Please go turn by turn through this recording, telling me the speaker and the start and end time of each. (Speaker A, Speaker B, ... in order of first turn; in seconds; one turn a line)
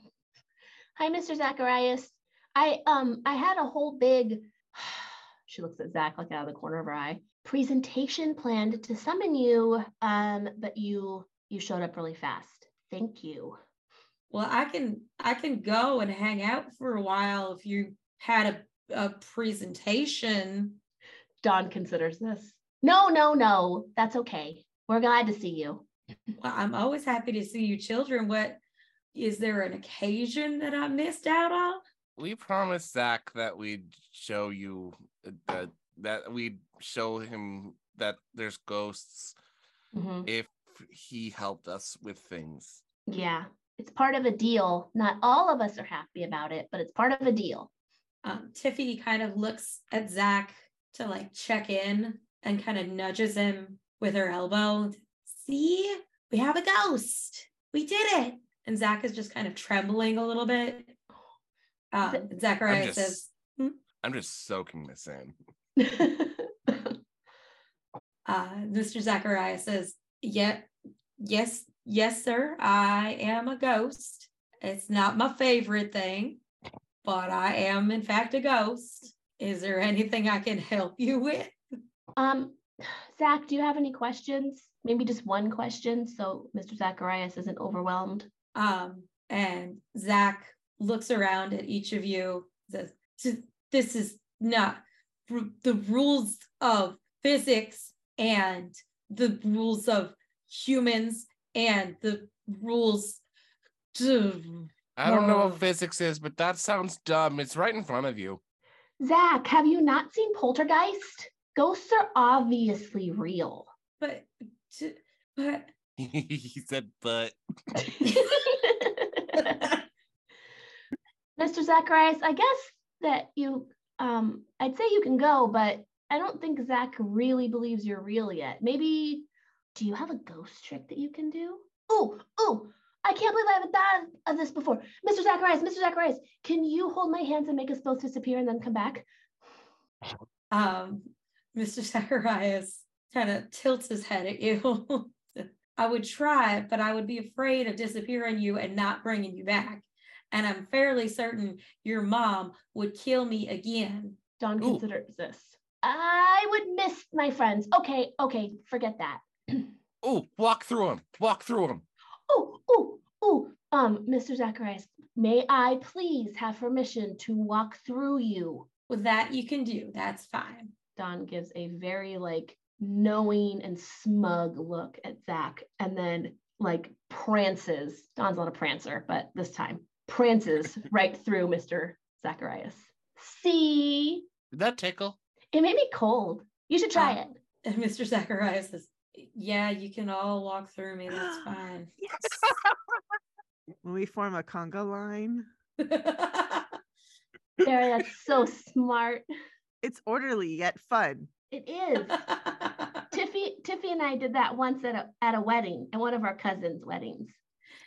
Speaker A: 1.0-13.6
Speaker B: 14.3-20.8
Speaker A: 21.4-25.9
Speaker B: 26.4-28.6
Speaker B: 29.1-31.8
Speaker C: 32.2-39.4
Speaker A: 39.9-40.3
Speaker C: 40.3-42.8
Speaker A: 43.1-47.7
Speaker B: 48.2-61.0
Speaker B: 61.9-63.8
Speaker A: 62.0-62.3
Speaker C: 62.7-63.2
Speaker C: 64.0-65.3
Speaker A: 65.8-67.0
Speaker B: 68.3-76.4
Speaker B: 77.0-81.6
Speaker A: 82.2-88.3
Speaker B: 88.5-103.2
Speaker B: 103.9-105.7
Speaker C: 105.0-108.4
Speaker A: 109.0-113.7
Speaker B: 114.0-115.7
Speaker C: 116.0-117.4
Speaker A: 117.8-119.8
Speaker B: 118.0-118.4
Speaker B: 119.4-119.7
Speaker A: 121.4-139.1
Speaker B: 140.5-154.2
Speaker A: 154.4-159.7
Speaker C: 160.0-161.8
Speaker A: 162.3-168.7
Speaker B: 168.9-170.7
Speaker A: 171.0-184.3
Speaker C: 184.5-185.2
Speaker A: 185.5-187.4
Speaker B: 186.9-191.9
Speaker D: 191.1-191.5
Speaker C: 192.2-192.5
Speaker D: 193.8-195.5
Speaker B: 195.8-196.7
Speaker A: 197.6-199.2
Speaker D: 199.8-201.3
Speaker A: 201.5-202.2
Speaker B: 202.0-203.1
Speaker A: 203.1-207.4